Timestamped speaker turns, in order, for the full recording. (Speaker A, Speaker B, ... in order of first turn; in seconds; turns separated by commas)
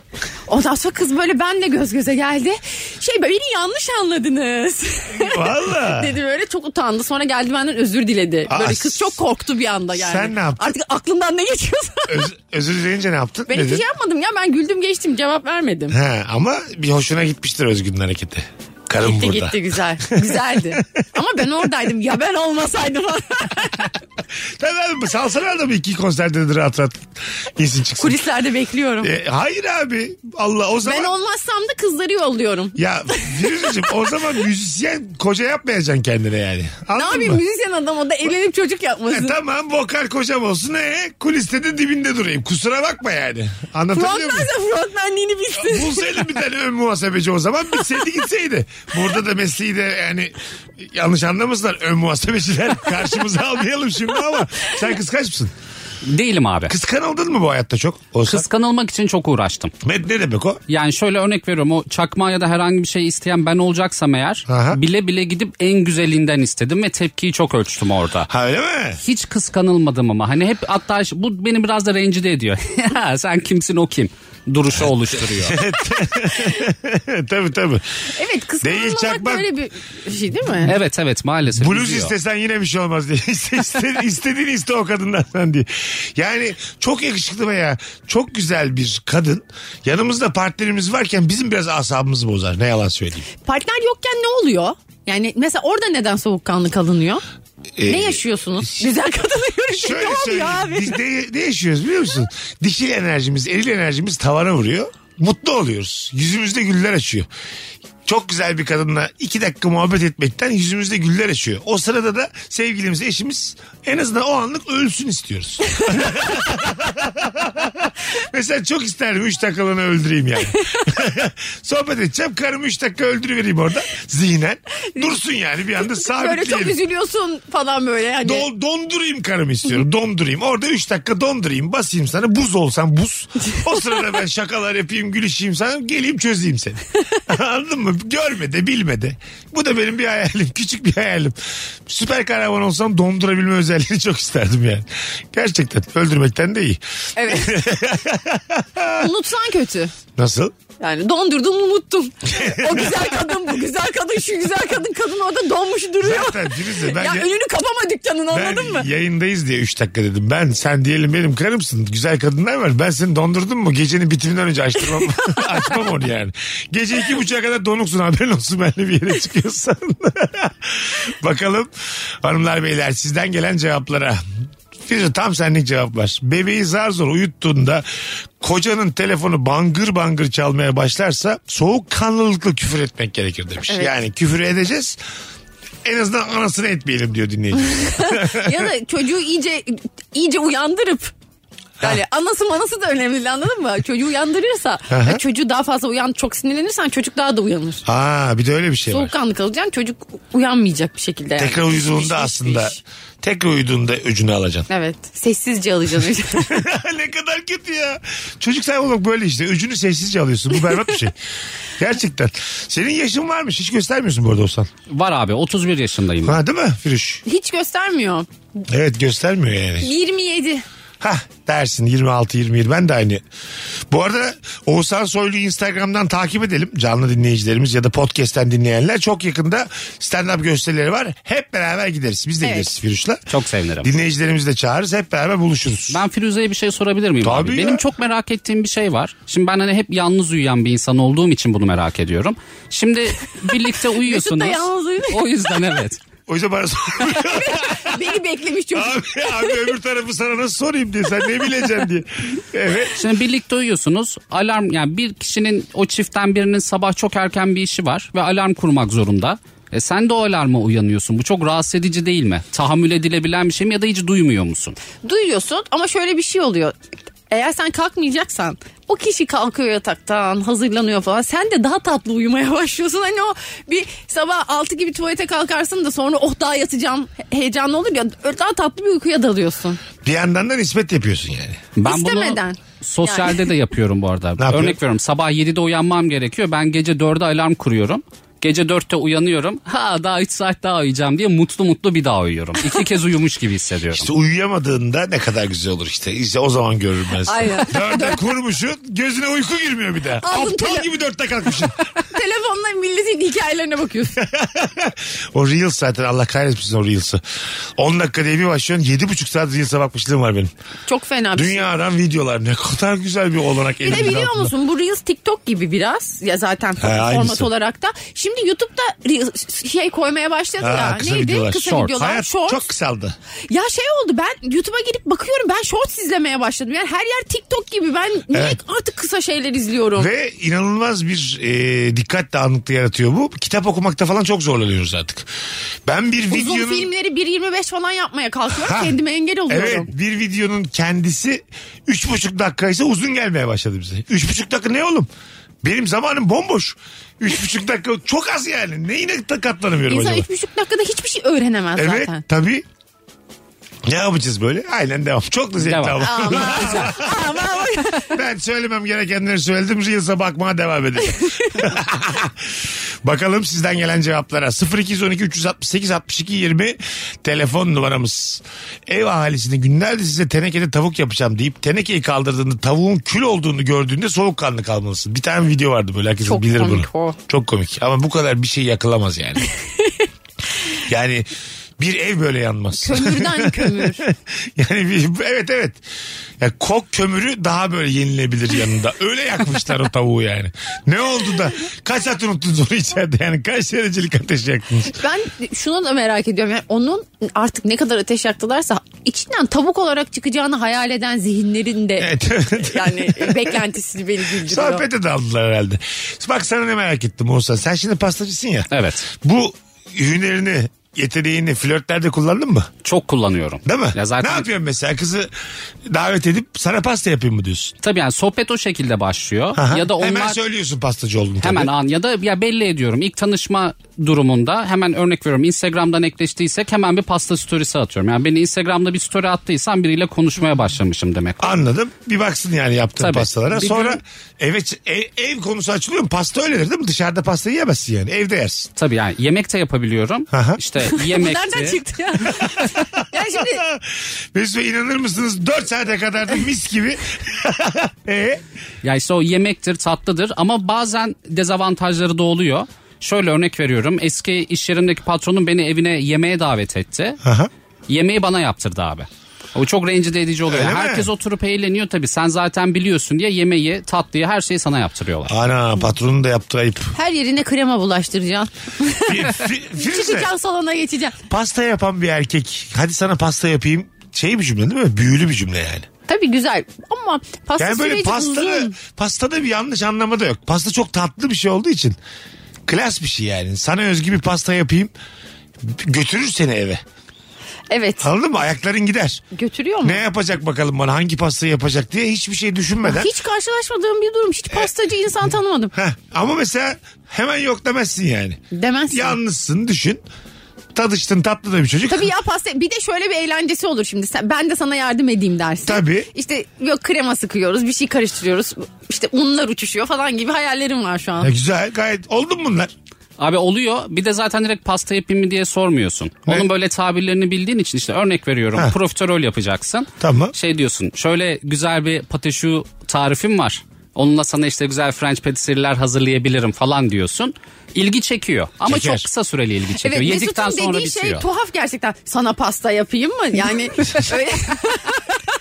Speaker A: 0.5-12.3, Speaker B: 5.1-6.1, Speaker B: 8.5-9.2, Speaker B: 9.9-10.7, Speaker B: 12.1-13.8, Speaker A: 13.5-16.0, Speaker B: 15.9-20.8, Speaker A: 19.0-23.9, Speaker B: 24.6-28.2, Speaker A: 28.0-29.1, Speaker B: 29.0-31.1, Speaker A: 30.8-33.8, Speaker B: 32.8-37.4, Speaker A: 36.9-39.4, Speaker B: 39.1-44.5, Speaker A: 43.9-46.2, Speaker B: 45.5-55.5, Speaker C: 56.0-56.7, Speaker B: 56.7-58.4, Speaker C: 58.3-59.7, Speaker B: 59.8-60.6, Speaker C: 60.7-68.3, Speaker B: 64.5-64.8, Speaker B: 68.3-69.0, Speaker C: 69.0-75.6, Speaker B: 75.3-77.8, Speaker A: 78.1-80.7, Speaker B: 78.6-79.5, Speaker C: 80.7-82.1, Speaker B: 81.5-93.3, Speaker A: 93.4-97.2, Speaker B: 97.8-98.9, Speaker A: 97.8-101.0, Speaker B: 99.7-107.3, Speaker B: 108.0-126.8, Speaker A: 125.8-128.4, Speaker B: 128.2-149.1, Speaker A: 147.2-147.6, Speaker A: 148.9-149.9, Speaker B: 150.2-150.5, Speaker A: 150.8-158.9, Speaker B: 152.3-153.1, Speaker B: 156.0-157.3, Speaker B: 158.3-171.7, Speaker B: 172.2-174.2, Speaker B: 174.8-177.8, Speaker B: 178.4-185.0, Speaker A: 183.7-183.9, Speaker B: 185.8-188.7, Speaker A: 187.6-191.1, Speaker A: 191.8-197.8, Speaker B: 194.9-195.2, Speaker B: 197.8-199.1, Speaker A: 198.9-202.8, Speaker B: 201.4-204.7, Speaker A: 204.7-206.6, Speaker B: 206.3-211.2, Speaker B: 211.8-214.7, Speaker C: 214.9-216.4, Speaker B: 216.2-217.2, Speaker A: 217.2-218.3, Speaker B: 218.7-219.9, Speaker A: 219.8-220.6, Speaker B: 221.0-223.2, Speaker B: 223.9-233.2, Speaker A: 232.4-232.7, Speaker C: 233.3-233.9, Speaker B: 233.8-236.0, Speaker C: 235.9-246.0, Speaker B: 237.2-237.8, Speaker A: 244.0-245.2, Speaker B: 246.3-248.0, Speaker A: 247.1-249.7, Speaker B: 248.7-253.0, Speaker C: 252.9-264.8, Speaker A: 265.0-266.7, Speaker A: 267.3-279.8, Speaker B: 280.0-281.6, Speaker C: 281.8-294.1, Speaker A: 281.8-283.4, Speaker B: 284.4-284.8, Speaker B: 293.9-301.8, Speaker A: 297.2-298.2, Speaker A: 300.2-300.9, Speaker A: 302.0-304.2, Speaker B: 304.2-307.2, Speaker B: 307.8-310.5, Speaker A: 310.9-311.7, Speaker B: 311.3-314.5, Speaker A: 313.8-322.6, Speaker B: 316.8-317.5, Speaker B: 320.6-323.2, Speaker A: 323.5-330.1, Speaker B: 328.3-328.6, Speaker B: 329.9-335.3, Speaker B: 335.9-336.9, Speaker A: 336.3-339.9, Speaker B: 338.5-338.9, Speaker B: 339.5-345.1, Speaker B: 345.6-350.2, Speaker A: 349.9-352.2, Speaker B: 351.8-352.6, Speaker B: 353.8-357.3, Speaker C: 355.6-356.9, Speaker A: 356.0-358.1, Speaker B: 358.1-379.5, Speaker A: 361.1-361.5, Speaker A: 376.2-377.2, Speaker B: 380.9-385.8, Speaker A: 382.8-384.0, Speaker B: 386.4-395.0, Speaker A: 394.9-404.8, Speaker B: 402.0-403.6, Speaker B: 404.4-412.7, Speaker C: 408.7-409.1, Speaker C: 412.8-414.5, Speaker B: 413.6-415.3, Speaker B: 415.9-417.8, Speaker C: 417.8-420.4, Speaker B: 419.5-421.7, Speaker C: 421.4-431.6, Speaker B: 431.4-438.7, Speaker C: 433.0-434.0, Speaker C: 438.8-441.8, Speaker B: 440.3-440.6, Speaker A: 440.9-443.6, Speaker B: 442.4-448.4, Speaker C: 448.8-457.2, Speaker B: 457.2-457.5, Speaker C: 457.9-465.3, Speaker B: 460.5-461.1, Speaker B: 465.3-466.9, Speaker A: 466.9-471.1, Speaker B: 469.1-470.3, Speaker B: 471.3-475.9, Speaker A: 476.1-478.7, Speaker B: 477.6-482.0, Speaker B: 482.7-484.9, Speaker B: 485.6-486.8, Speaker A: 487.7-488.1, Speaker B: 488.0-489.2, Speaker A: 489.3-490.0, Speaker B: 489.8-493.1, Speaker A: 492.8-495.7, Speaker B: 495.7-500.0, Speaker A: 498.5-499.2, Speaker B: 500.7-502.1, Speaker A: 501.9-511.3, Speaker B: 505.6-506.1, Speaker B: 511.2-512.7, Speaker C: 513.2-531.2, Speaker B: 520.0-520.3, Speaker B: 528.6-529.0, Speaker A: 529.8-535.2